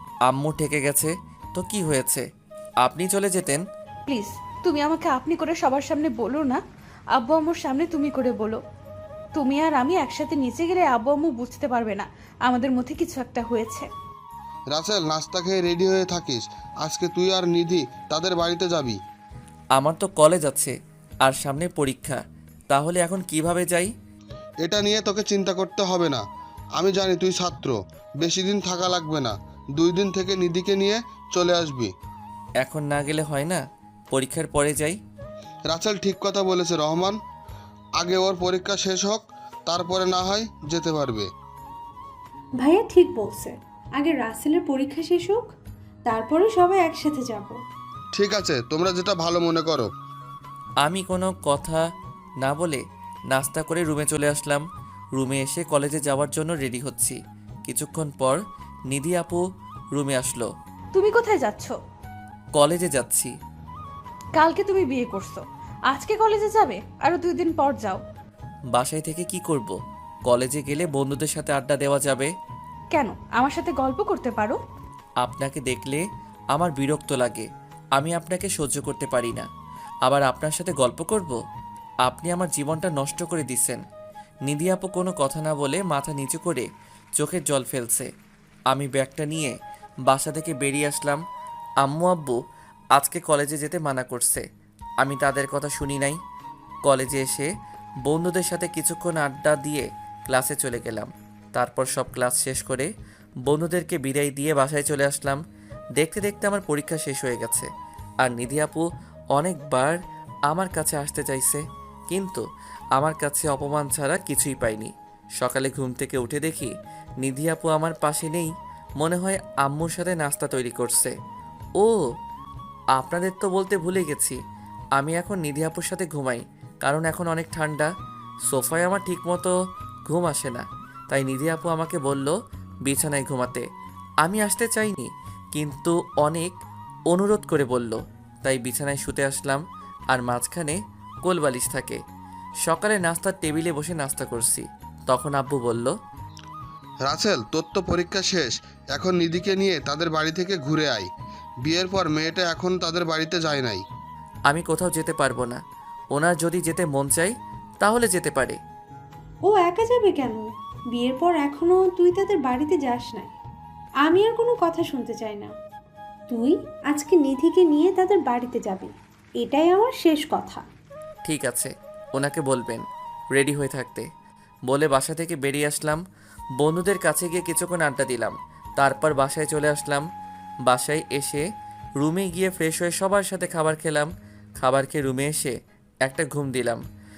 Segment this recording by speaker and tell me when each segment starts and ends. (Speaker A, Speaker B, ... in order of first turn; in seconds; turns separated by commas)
Speaker A: 0.3-2.2, Speaker A: 2.8-3.6, Speaker B: 4.1-6.6, Speaker B: 7.1-8.6, Speaker B: 9.3-13.9, Speaker C: 14.7-19.0, Speaker A: 19.8-23.9, Speaker C: 24.6-26.2, Speaker C: 26.8-31.9, Speaker A: 32.6-35.0, Speaker C: 35.7-37.1, Speaker C: 38.0-41.3, Speaker D: 42.6-45.5, Speaker D: 46.1-47.6, Speaker C: 48.1-49.9, Speaker A: 50.8-51.8, Speaker A: 52.4-54.6, Speaker A: 55.1-59.4, Speaker A: 59.9-60.5, Speaker B: 60.9-61.8, Speaker A: 62.5-63.3, Speaker B: 64.3-68.0, Speaker A: 68.8-69.7, Speaker A: 70.3-72.3, Speaker B: 72.9-74.6, Speaker A: 75.2-76.0, Speaker A: 76.5-79.5, Speaker A: 80.0-81.4, Speaker A: 82.0-83.8, Speaker A: 84.5-86.7, Speaker A: 87.2-88.1, Speaker A: 88.7-91.2, Speaker A: 91.8-92.4, Speaker A: 93.0-94.4, Speaker A: 95.0-96.2, Speaker A: 96.8-97.5, Speaker A: 98.0-102.9, Speaker A: 103.5-105.4, Speaker A: 106.0-107.7, Speaker A: 108.2-110.0, Speaker A: 110.5-112.4, Speaker A: 113.0-121.1, Speaker A: 123.0-124.4, Speaker A: 125.0-127.9, Speaker A: 128.5-129.5, Speaker A: 130.1-133.6, Speaker A: 134.2-136.6, Speaker A: 137.1-142.0, Speaker A: 142.6-145.9, Speaker C: 147.0-151.1, Speaker C: 151.6-153.8, Speaker A: 154.5-155.6, Speaker A: 156.1-158.6, Speaker D: 159.4-163.3, Speaker D: 164.0-165.5, Speaker D: 166.3-170.6, Speaker A: 171.2-172.8, Speaker A: 173.3-174.1, Speaker A: 174.7-176.0, Speaker A: 176.6-180.0, Speaker A: 180.7-181.4, Speaker A: 182.0-185.5, Speaker A: 186.1-186.8